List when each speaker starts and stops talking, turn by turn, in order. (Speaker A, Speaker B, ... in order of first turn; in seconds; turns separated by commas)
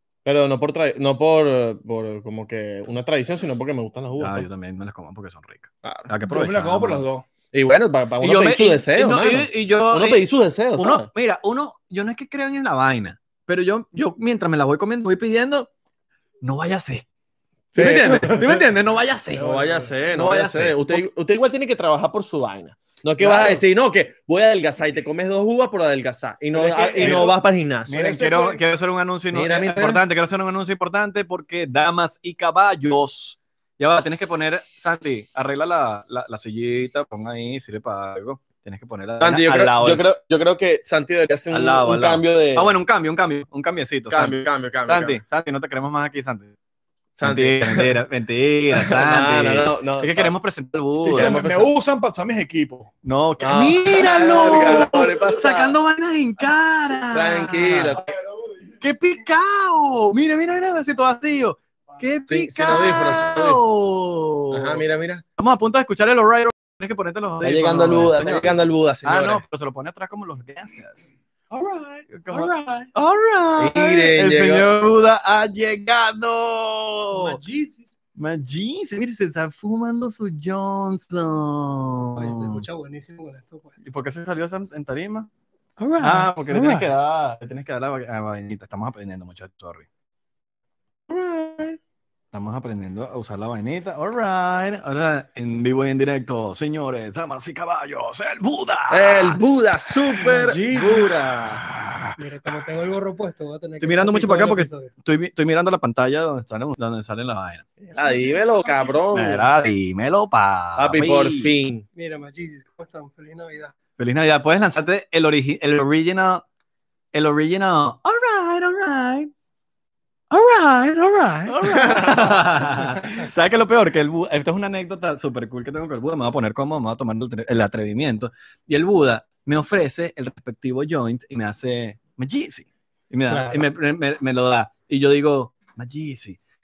Speaker A: 0.2-4.5, Speaker B: 4.2-7.0, Speaker A: 5.8-6.1, Speaker C: 6.3-7.2, Speaker A: 7.5-11.1, Speaker B: 8.2-10.2, Speaker B: 10.8-15.7, Speaker B: 16.4-17.1, Speaker A: 17.7-18.6, Speaker B: 17.7-21.1, Speaker C: 19.3-20.0, Speaker A: 19.4-28.1, Speaker C: 23.2-23.6, Speaker C: 26.5-28.6, Speaker B: 27.0-27.4, Speaker B: 27.9-40.1, Speaker A: 29.3-30.0, Speaker A: 39.2-42.7, Speaker B: 41.5-46.5, Speaker A: 44.1-45.2, Speaker A: 47.2-48.0, Speaker B: 47.2-51.4, Speaker A: 48.7-50.3, Speaker C: 51.0-52.9, Speaker A: 51.1-51.7, Speaker B: 53.0-58.0, Speaker A: 53.4-55.8, Speaker A: 57.1-58.1, Speaker B: 58.8-64.8, Speaker A: 62.3-63.6, Speaker A: 64.5-65.2, Speaker B: 65.4-71.1, Speaker A: 67.4-69.4, Speaker A: 71.5-72.0, Speaker B: 72.1-77.4, Speaker A: 73.6-74.7, Speaker D: 77.1-77.9, Speaker B: 78.2-82.7, Speaker D: 82.2-83.8, Speaker B: 83.8-85.3, Speaker D: 85.8-86.9, Speaker B: 86.0-89.9, Speaker A: 91.1-91.8, Speaker B: 92.3-99.4, Speaker A: 98.9-101.6, Speaker B: 100.7-102.2, Speaker D: 102.2-104.9, Speaker B: 103.8-107.7, Speaker D: 107.9-109.4, Speaker A: 107.9-109.4, Speaker B: 109.1-111.5, Speaker A: 110.8-111.8, Speaker D: 112.0-113.7, Speaker B: 114.0-116.5, Speaker B: 117.1-119.3, Speaker B: 120.3-136.4, Speaker A: 121.5-122.7, Speaker D: 133.3-133.7